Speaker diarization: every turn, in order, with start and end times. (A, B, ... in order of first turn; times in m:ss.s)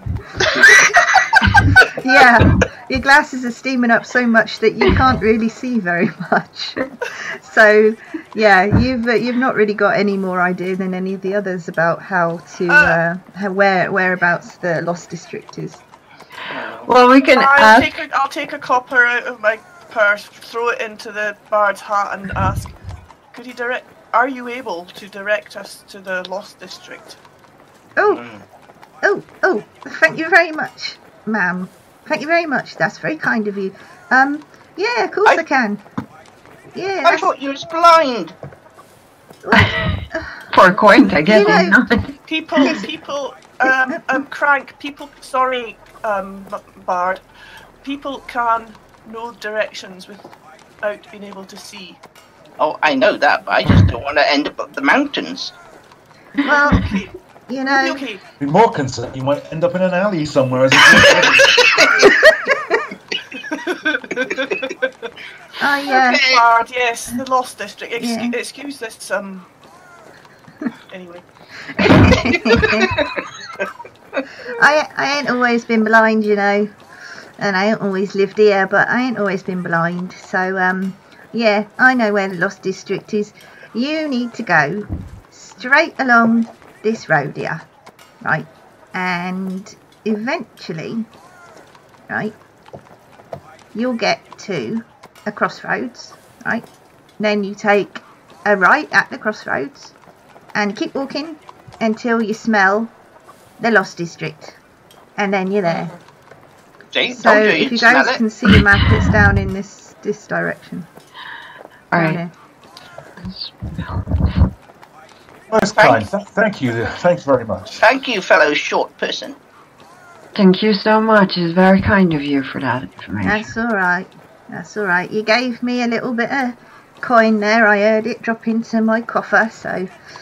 0:00.4-0:01.9 A
0:01.9-0:15.8 B
0:12.7-0:13.0 C
0:16.5-0:16.9 A
0:16.8-0:18.0 D
0:17.3-0:22.7 C
0:23.3-0:27.2 C
0:28.0-0:28.2 B
0:28.0-0:28.4 A
0:29.0-0:35.8 B
0:36.7-0:37.3 B
0:37.0-0:38.4 A
0:39.4-0:40.3 B
0:40.5-0:42.2 D
0:41.2-0:41.8 B
0:42.3-0:47.2 C
0:42.6-0:42.9 B
0:47.8-0:50.3 C
0:50.8-0:52.0 C
0:52.6-0:55.5 A
0:56.4-0:56.9 B
0:56.4-0:57.1 C
0:57.5-0:58.0 B
0:57.7-0:58.2 C
0:58.4-1:01.6 E
1:01.0-1:02.1 A
1:02.2-1:02.8 B
1:03.9-1:04.7 C
1:05.6-1:06.2 B
1:05.9-1:06.4 A
1:06.3-1:09.5 C
1:08.0-1:08.4 B
1:10.9-1:11.2 C
1:11.8-1:12.9 B
1:11.8-1:13.0 C
1:12.6-1:13.7 A
1:14.5-1:16.8 B
1:17.4-1:27.6 B
1:28.2-1:31.1 B
1:32.1-1:32.4 B
1:33.7-1:36.7 B
1:37.2-1:39.9 B
1:40.6-1:42.9 B
1:43.6-1:44.6 B
1:45.2-1:46.0 B
1:45.7-1:46.0 C
1:46.9-1:48.2 A
1:47.1-1:50.9 B
1:51.9-1:52.2 D
1:51.9-1:52.3 B
1:53.2-1:54.5 D
1:55.5-1:57.8 E
1:55.8-1:56.1 A
1:57.8-1:59.4 A
2:00.3-2:03.5 D
2:03.2-2:09.9 B